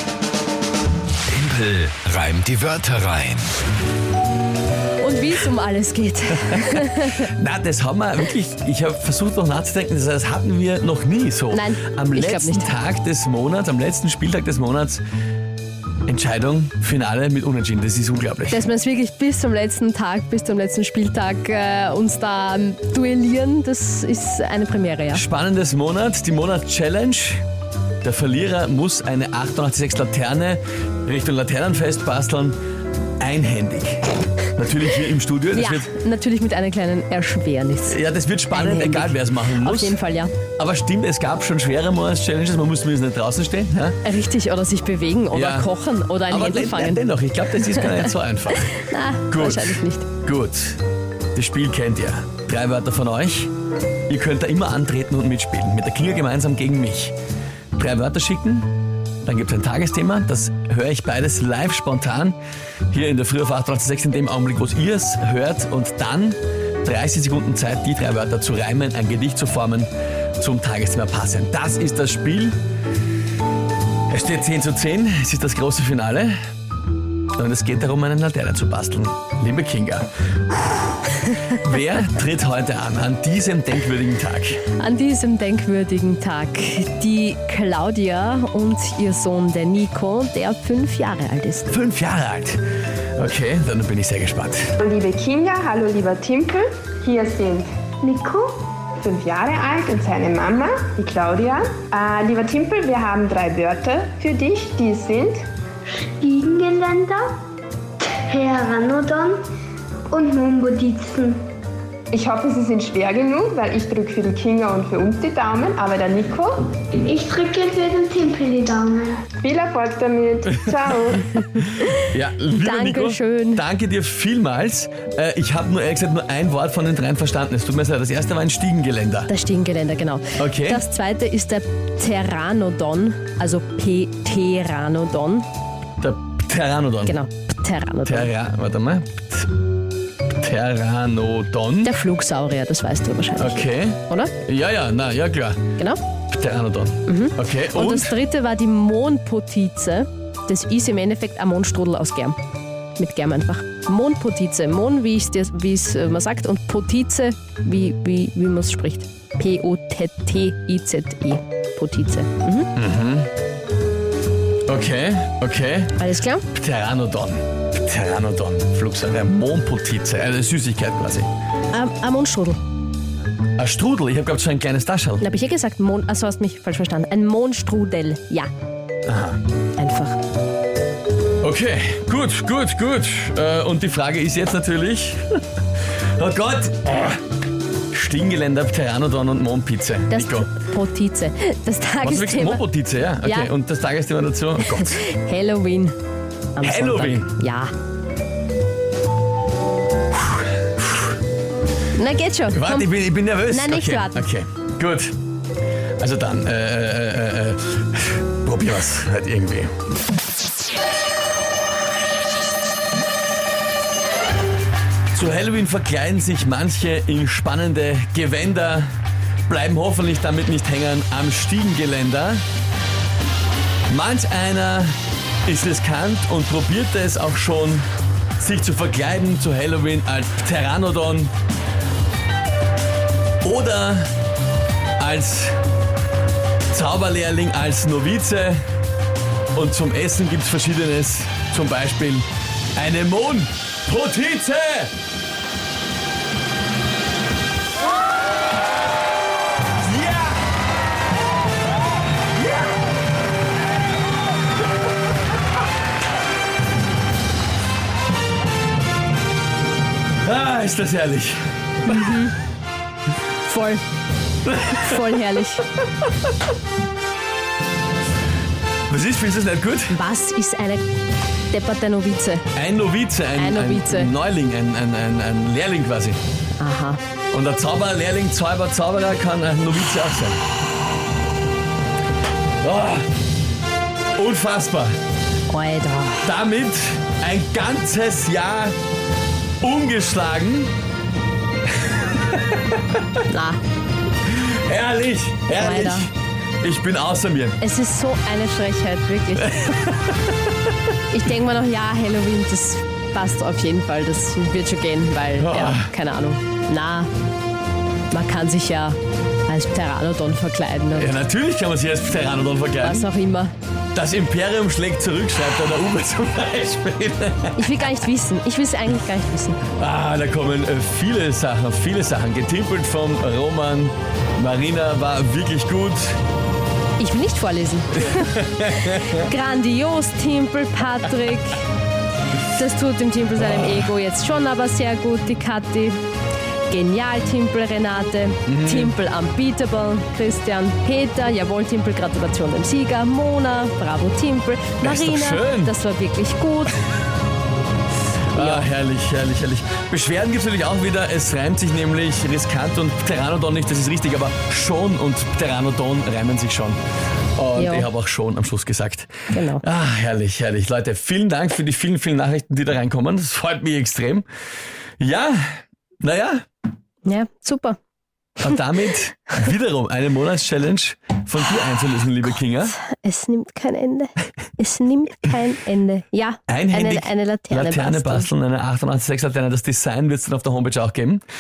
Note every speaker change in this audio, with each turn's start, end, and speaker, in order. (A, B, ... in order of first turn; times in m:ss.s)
0:01.3-0:03.5 A
0:05.0-0:07.3 B
0:06.4-0:15.0 C
0:11.5-0:12.7 B
0:16.1-0:18.6 C
0:18.5-0:25.2 B
0:25.1-0:27.4 C
0:28.0-0:32.6 C
0:33.2-0:35.9 C
0:35.5-0:38.0 B
0:37.9-0:40.0 C
0:38.5-0:40.3 B
0:40.6-0:44.0 C
0:44.0-0:47.0 B
0:45.3-0:45.7 C
0:46.3-0:48.8 C
0:47.7-0:48.1 B
0:48.7-0:50.1 B
0:49.3-0:50.8 C
0:51.3-0:53.5 C
0:54.1-0:57.2 C
0:57.8-0:58.7 C
0:59.2-1:02.4 C
1:02.9-1:12.6 C
1:14.1-1:16.4 C
1:17.4-1:24.6 C
1:24.8-1:31.7 B
1:31.7-1:32.6 C
1:33.2-1:34.7 C
1:34.8-1:37.7 D
1:38.0-1:38.6 E
1:39.0-1:45.4 D
1:45.8-1:47.4 E
1:48.2-1:49.4 E
1:50.1-1:51.4 E
1:52.1-1:56.7 D
1:57.0-1:59.3 E
1:59.4-2:01.3 D
2:01.5-2:03.6 B
2:02.0-2:09.3 C
2:09.3-2:15.5 B
2:10.4-2:10.8 C
2:16.0-2:17.2 C
2:17.0-2:18.3 B
2:18.0-2:19.5 C
2:20.3-2:22.0 C
2:21.8-2:24.3 B
2:23.4-2:25.7 C
2:26.3-2:28.2 C
2:27.1-2:32.4 B
2:33.0-2:42.7 B
2:42.8-2:43.3 C
2:44.7-2:46.0 C
2:46.0-2:46.4 B
2:46.5-2:51.3 C
2:51.7-2:52.6 B
2:53.6-2:55.3 C
2:55.2-2:58.5 B
2:59.1-2:59.4 C
2:59.8-3:00.2 B
3:01.4-3:05.4 C
3:06.2-3:07.2 C
3:07.9-3:10.5 C
3:10.1-3:12.6 B
3:12.0-3:15.0 C
3:13.2-3:13.5 B
3:14.6-3:16.0 B
3:16.6-3:17.7 B
3:16.6-3:17.3 C
3:20.2-3:21.1 C
3:21.9-3:22.9 B
3:22.5-3:25.2 C
3:23.4-3:24.3 B
3:26.0-3:29.7 C
3:35.1-3:38.9 C
3:39.5-3:42.4 C
3:43.9-3:51.3 C
3:53.4-3:54.1 C
3:55.0-3:55.6 C
3:56.7-3:58.6 C
3:59.5-4:05.0 C
4:09.8-4:10.4 C
4:20.2-4:21.5 C
4:21.9-4:22.4 B
4:23.4-4:23.8 B
4:24.4-4:25.0 C
4:24.7-4:25.6 B
4:28.9-4:30.0 C
4:29.9-4:30.9 B
4:31.5-4:32.4 B
4:32.5-4:36.2 C
4:33.4-4:34.1 B
4:36.6-4:37.0 B
4:37.3-4:40.4 C
4:42.6-4:43.1 C
4:44.2-4:45.0 C
4:45.5-4:46.3 B
4:46.2-4:48.8 C
4:49.6-4:50.7 C
4:51.8-4:52.8 C
4:53.3-4:53.6 B
4:54.2-4:57.6 C
4:55.6-4:56.1 B
4:57.6-4:59.8 B
4:59.4-5:00.4 C
5:01.1-5:07.1 B
5:05.4-5:05.9 C
5:08.1-5:11.1 B
5:11.0-5:13.1 C
5:12.8-5:13.5 B
5:13.9-5:17.9 C
5:17.6-5:19.6 B
5:19.7-5:26.2 C
5:27.0-5:31.6 B
5:28.1-5:29.3 C
5:32.4-5:36.0 B
5:33.4-5:33.8 C
5:36.7-5:46.9 B
5:38.5-5:39.0 C
5:44.8-5:45.8 C
5:48.3-5:56.8 C
5:48.3-5:48.7 B
5:57.4-6:04.3 C
5:57.6-5:57.9 B
5:59.3-5:59.6 B
6:05.0-6:06.4 C
6:07.0-6:07.8 B
6:08.4-6:12.8 C
6:12.7-6:18.3 B
6:16.5-6:21.2 C